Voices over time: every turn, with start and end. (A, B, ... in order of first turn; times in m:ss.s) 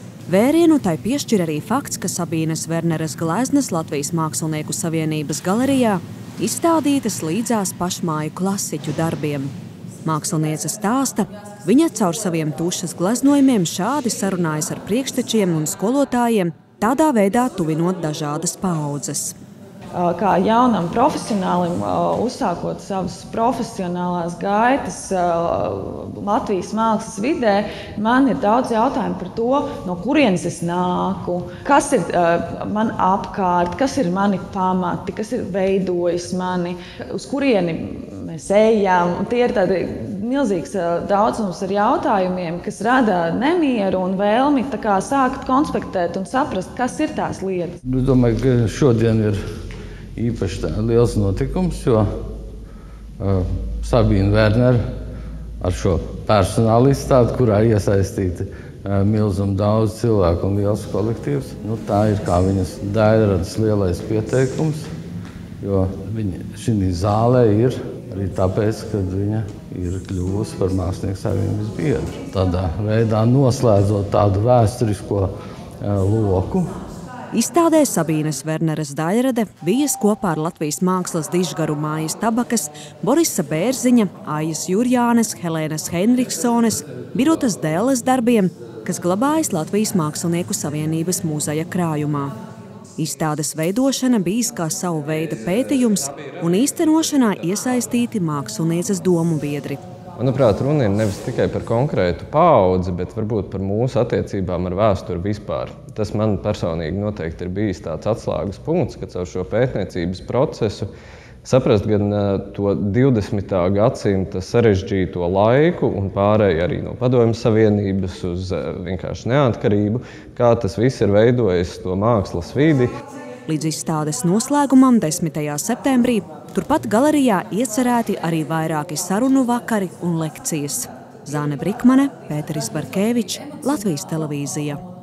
0:00.3-0:09.5 A
0:10.0-0:19.4 A
0:19.9-0:47.8 B
0:47.8-0:49.4 C
0:50.2-0:52.0 C
0:53.2-0:54.8 C
0:55.6-1:04.9 C
1:05.6-1:15.3 C
1:15.8-1:16.7 C
1:17.3-1:32.3 A
1:33.0-1:39.8 A
1:40.2-1:50.9 D
1:51.4-2:02.9 D
2:03.5-2:14.8 A